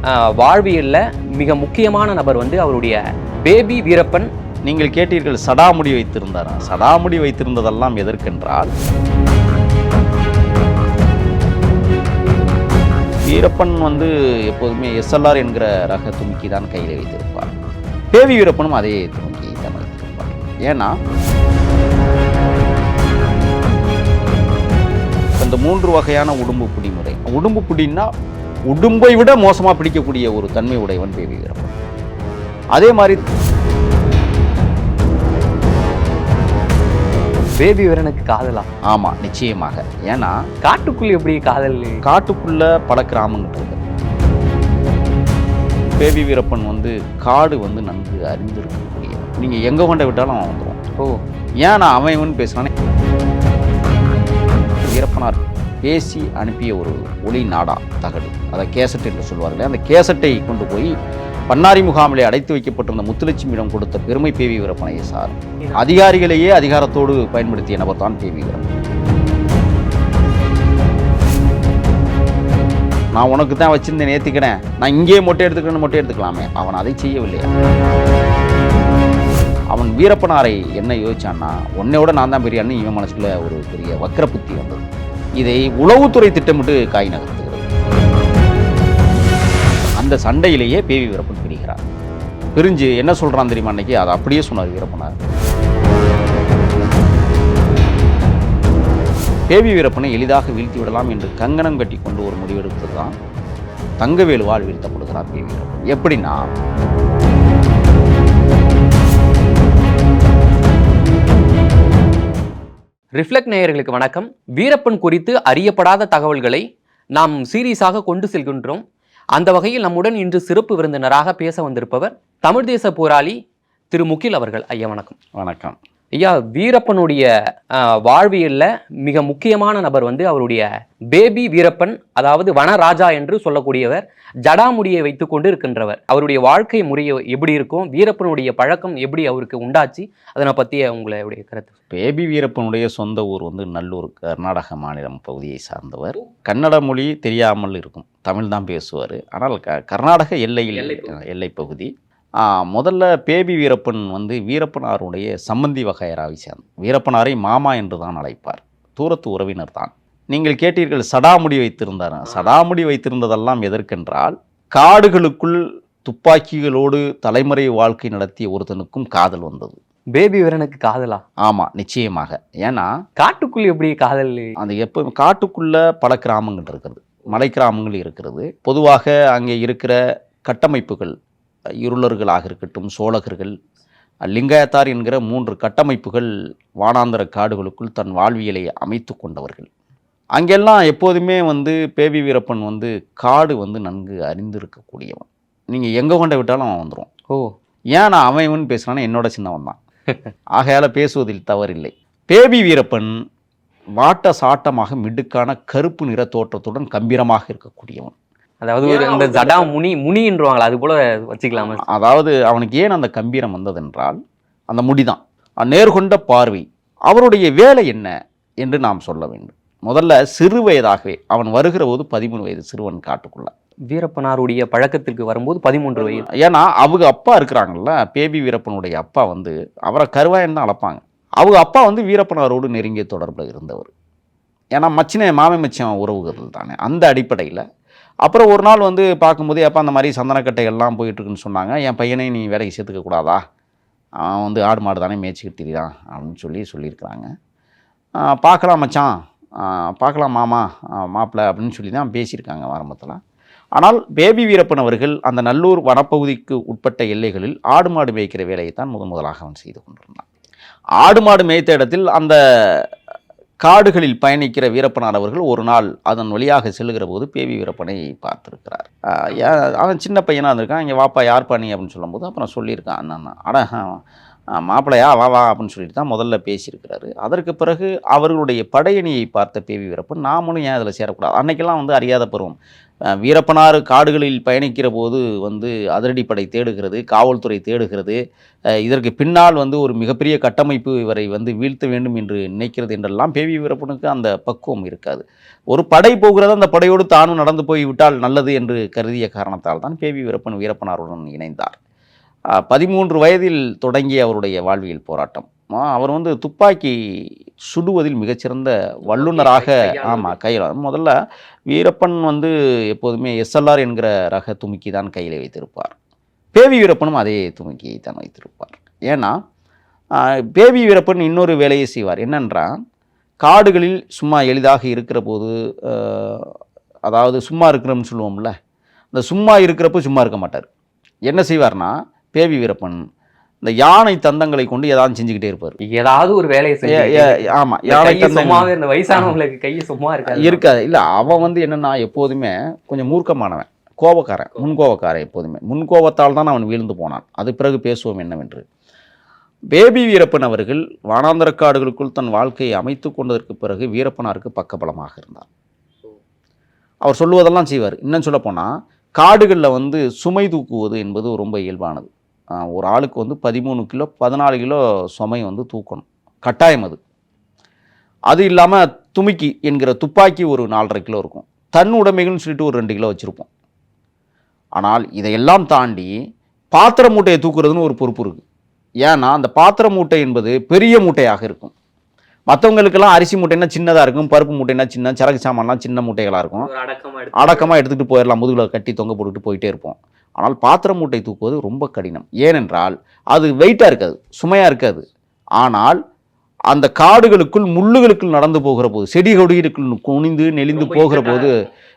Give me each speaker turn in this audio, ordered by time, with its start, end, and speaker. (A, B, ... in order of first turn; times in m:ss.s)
0:00.2-0:04.3 A
0:04.6-0:08.7 B
0:13.2-0:17.5 B
0:18.1-0:21.0 B
0:25.4-0:28.1 B
0:28.7-0:31.8 B
0:32.7-0:33.2 B
0:37.6-0:38.7 A
0:38.9-0:40.4 B
0:40.6-0:42.0 A
0:42.0-0:43.8 B
0:45.9-0:50.8 B
0:51.6-0:52.7 B
0:54.8-1:00.9 B
1:01.5-1:08.7 B
1:13.1-1:17.5 B
1:19.7-1:24.8 B
1:25.4-1:27.7 B
1:30.0-1:31.8 B
1:32.5-1:35.1 B
1:39.5-1:43.1 B
1:44.0-1:46.5 B
1:53.2-1:58.8 A
1:59.3-2:03.4 A
2:03.9-2:05.2 A
2:05.4-2:05.8 B
2:06.1-2:21.7 A
2:21.9-2:49.8 B
2:30.8-2:31.2 A
2:50.1-2:51.2 A
2:51.4-2:52.9 B
2:53.2-2:54.6 A
2:54.6-3:01.1 B
3:01.8-3:03.5 B
3:04.2-3:09.7 B
3:10.3-3:17.1 B
3:17.9-3:19.8 B
3:20.6-3:23.1 B
3:24.0-3:28.1 B
3:28.6-3:31.8 A
3:28.8-3:29.7 B
3:31.6-3:34.2 B
3:34.7-3:43.5 B
3:43.9-3:46.2 A
3:46.0-3:53.9 B
3:54.7-3:57.6 B
3:58.2-4:03.4 B
4:04.2-4:07.3 B
4:08.2-4:13.2 B
4:13.8-4:20.2 B
4:21.0-4:22.9 B
4:23.6-4:34.0 B
4:34.5-4:42.6 B
4:43.2-4:48.2 B
4:48.8-5:01.8 B
5:02.5-5:07.0 B
5:07.6-5:11.1 B
5:09.1-5:10.4 A
5:11.7-5:15.9 B
5:16.5-5:19.4 B
5:20.1-5:22.8 B
5:23.4-5:26.5 B
5:27.0-5:28.5 B
5:29.1-5:30.7 B
5:31.3-5:33.0 B
5:33.6-5:35.8 B
5:35.8-5:40.6 A
5:36.8-5:39.3 B
5:40.3-5:48.6 B
5:49.7-5:55.5 B
5:57.0-6:07.0 B
6:08.3-6:13.5 B
6:14.8-6:16.1 B
6:16.7-6:18.4 B
6:19.0-6:21.7 B
6:22.5-6:26.7 B
6:26.6-6:27.7 A
6:27.3-6:35.0 B
6:35.6-6:36.0 B
6:36.7-6:41.5 B
6:40.7-6:41.7 A